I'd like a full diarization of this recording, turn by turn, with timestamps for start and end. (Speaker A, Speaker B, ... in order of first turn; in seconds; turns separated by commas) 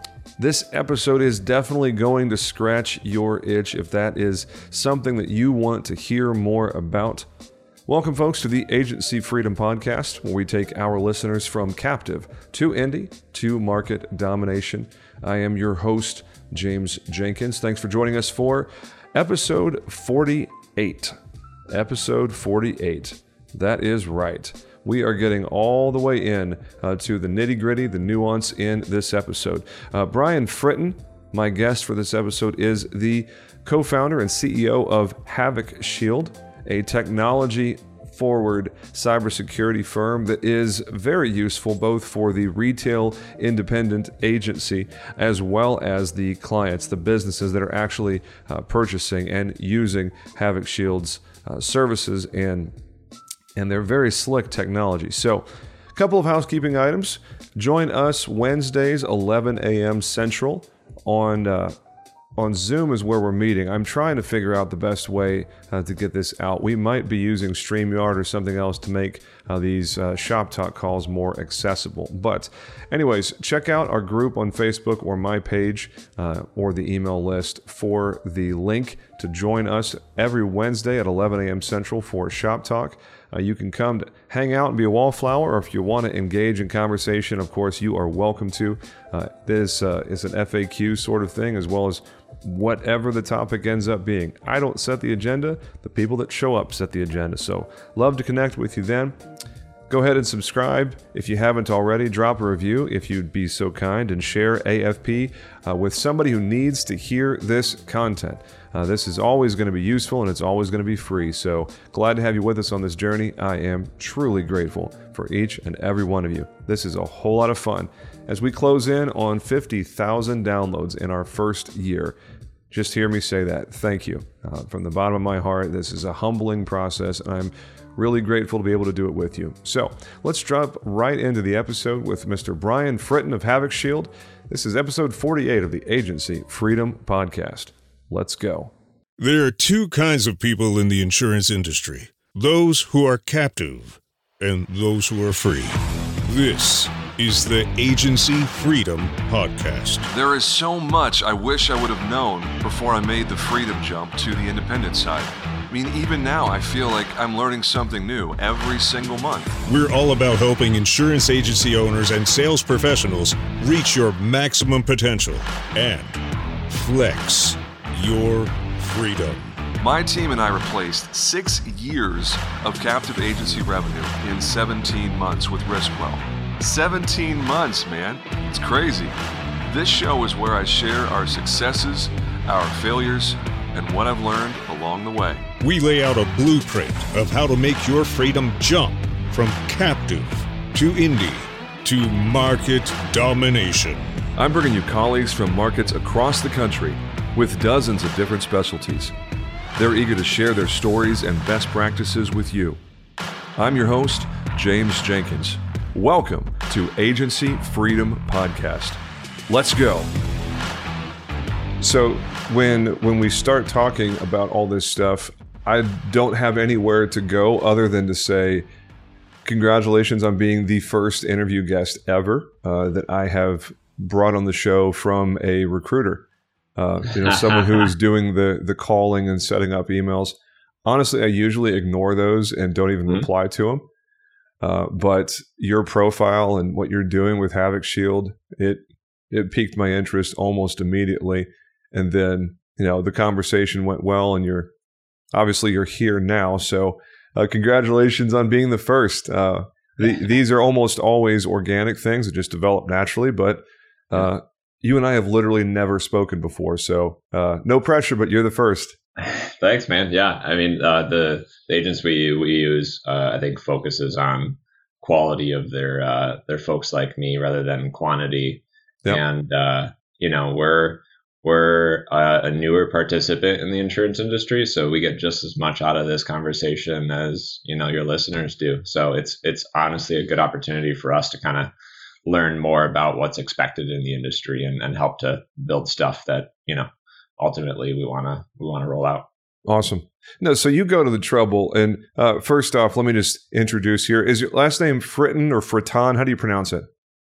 Speaker A: 0.4-7.3, Speaker A: 7.8-21.1, Speaker A: 21.7-52.7, Speaker A: 53.5-61.7, Speaker A: 62.4-99.2, Speaker A: 99.9-122.2, Speaker A: 122.7-138.7, Speaker B: 139.2-150.1, Speaker A: 150.1-159.6, Speaker B: 159.7-169.6, Speaker A: 169.8-179.2, Speaker A: 179.7-185.5, Speaker B: 185.6-194.2, Speaker A: 194.3-199.1, Speaker A: 199.8-202.8, Speaker A: 203.6-210.1, Speaker A: 211.8-218.6, Speaker A: 219.4-233.8, Speaker C: 227.2-227.9, Speaker A: 234.6-244.7, Speaker A: 245.3-258.9, Speaker C: 259.2-281.7, Speaker C: 282.2-289.2, Speaker A: 289.6-296.9